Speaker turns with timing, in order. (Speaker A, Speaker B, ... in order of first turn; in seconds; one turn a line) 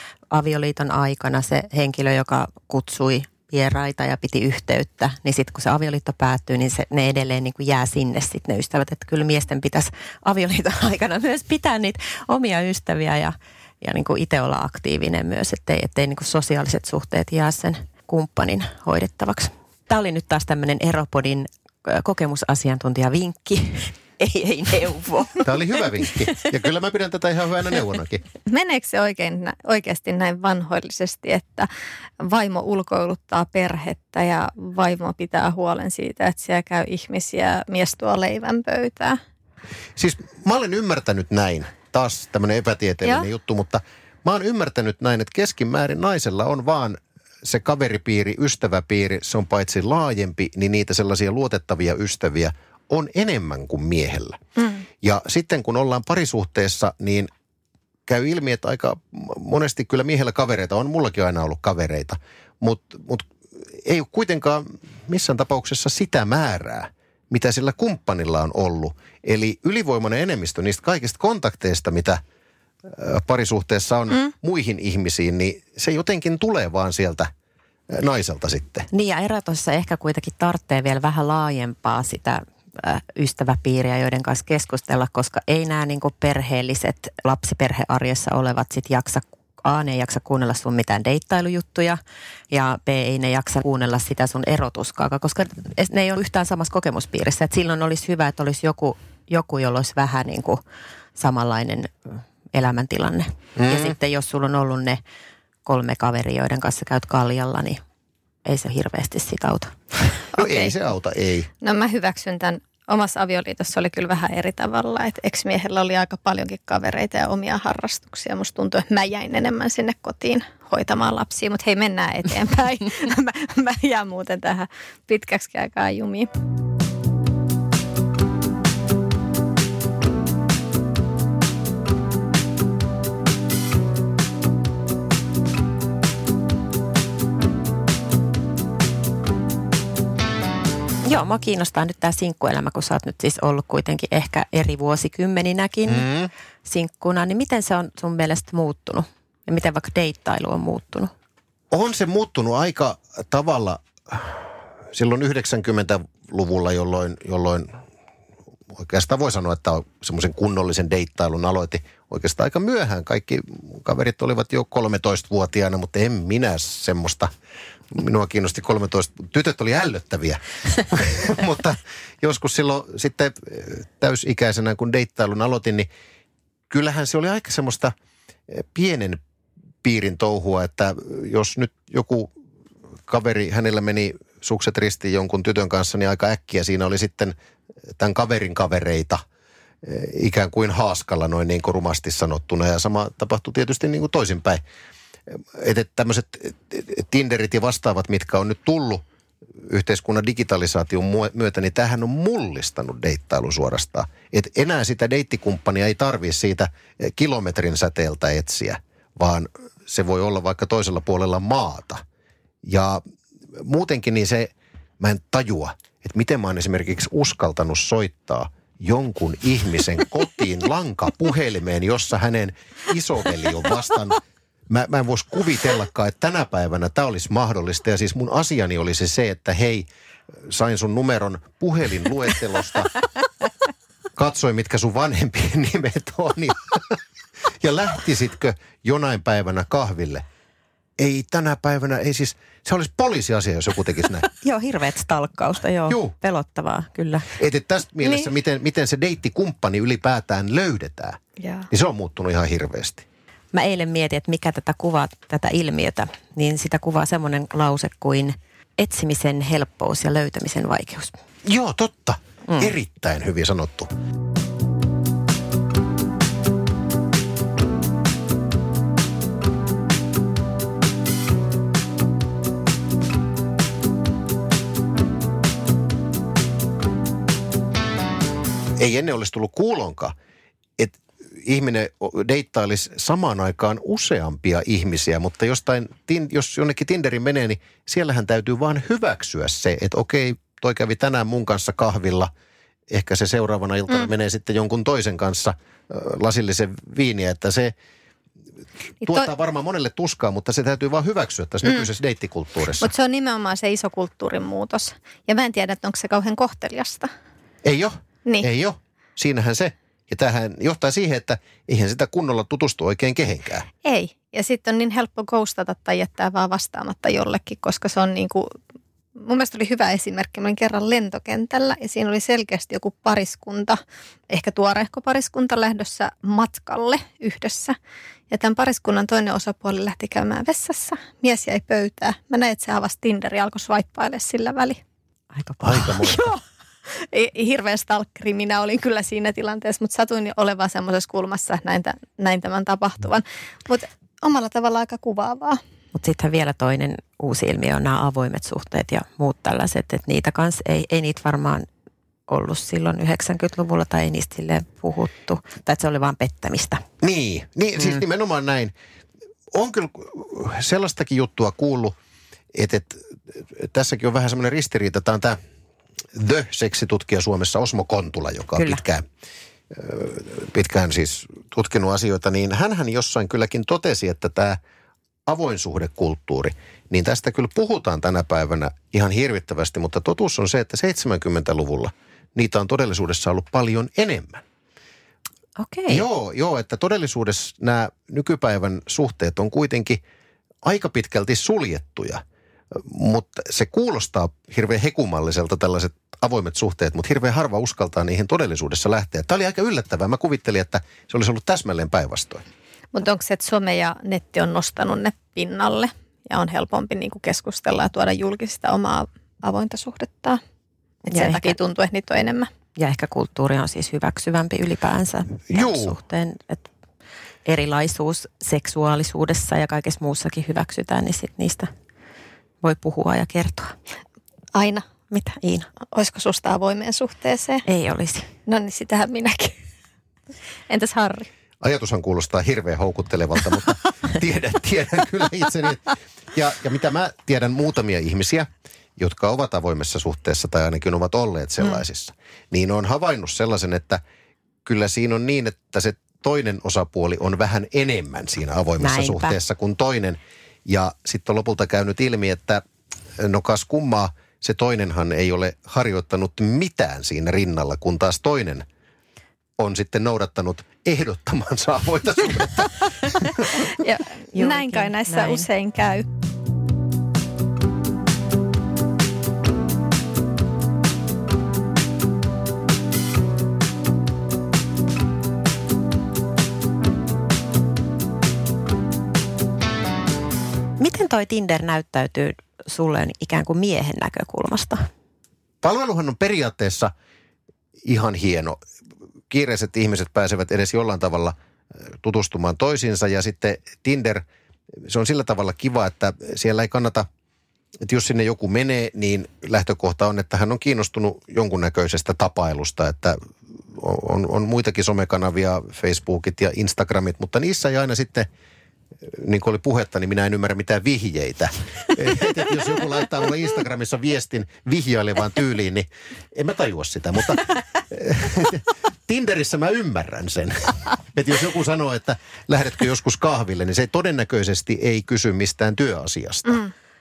Speaker A: 0.3-25.5
Speaker B: 25.4-28.2
Speaker C: 28.5-31.7
Speaker C: 32.2-39.2
Speaker B: 40.0-54.4
Speaker C: 54.6-54.8
Speaker B: 55.0-57.3
Speaker B: 58.1-72.2
Speaker B: 72.9-77.3
Speaker B: 77.9-78.9
Speaker A: 78.9-92.0
Speaker A: 92.5-100.6
Speaker A: 101.2-105.0
Speaker B: 103.6-104.0
Speaker A: 105.7-107.8
Speaker A: 108.5-109.8
Speaker C: 110.3-110.7
Speaker B: 110.3-111.5
Speaker C: 111.6-126.3
Speaker A: 141.1-146.1
Speaker B: 145.9-146.3
Speaker A: 146.7-151.1
Speaker B: 151.7-157.8
Speaker B: 158.7-167.3
Speaker B: 167.9-175.9
Speaker B: 176.7-177.9
Speaker B: 178.5-179.2
Speaker B: 179.8-182.3
Speaker B: 183.1-187.4
Speaker B: 188.0-189.2
Speaker B: 189.8-194.6
Speaker B: 195.3-199.1
Speaker B: 199.6-212.0
Speaker B: 212.6-213.0
Speaker B: 213.5-229.9
Speaker B: 230.4-232.9
Speaker B: 234.2-237.0
Speaker B: 237.6-240.2
Speaker B: 241.0-244.3
Speaker A: 244.4-247.3
Speaker B: 245.9-246.2
Speaker B: 247.4-253.1
Speaker C: 251.4-251.7
Speaker A: 253.5-261.1
Speaker B: 261.4-263.9
Speaker B: 278.8-280.1
Speaker B: 280.8-292.3
Speaker B: 292.9-297.7
Speaker B: 299.0-302.9
Speaker C: 299.0-299.3
Speaker C: 302.8-307.1
Speaker B: 307.6-313.7
Speaker C: 313.9-318.6
Speaker C: 319.2-323.8
Speaker C: 324.3-327.8
Speaker C: 328.3-334.8
Speaker A: 335.3-336.2
Speaker B: 335.6-336.3
Speaker C: 336.9-345.6
Speaker A: 345.9-351.7
Speaker A: 352.3-356.8
Speaker B: 357.0-358.7
Speaker B: 359.5-362.0
Speaker B: 362.5-365.4
Speaker B: 366.1-369.1
Speaker A: 368.6-368.8
Speaker B: 369.7-374.6
Speaker B: 375.3-384.4
Speaker A: 385.6-386.1
Speaker B: 385.9-390.0
Speaker B: 390.6-402.4
Speaker C: 402.9-410.4
Speaker A: 411.1-411.6
Speaker C: 411.1-412.5
Speaker A: 412.8-416.7
Speaker B: 415.5-416.0
Speaker A: 417.5-421.7
Speaker A: 422.6-423.8
Speaker C: 424.6-424.9
Speaker A: 425.1-425.7
Speaker C: 425.9-427.6
Speaker A: 427.7-428.3
Speaker C: 428.5-429.6
Speaker C: 430.7-431.3
Speaker B: 431.6-444.0
Speaker B: 444.6-452.6
Speaker A: 448.8-449.4
Speaker B: 453.2-458.7
Speaker B: 459.6-463.6
Speaker C: 463.6-466.1
Speaker A: 464.3-465.5
Speaker A: 480.8-484.9
Speaker B: 485.6-486.9
Speaker B: 487.8-488.6
Speaker B: 489.3-491.4
Speaker B: 492.0-494.2
Speaker B: 494.8-497.1
Speaker B: 497.8-508.3
Speaker B: 509.1-526.6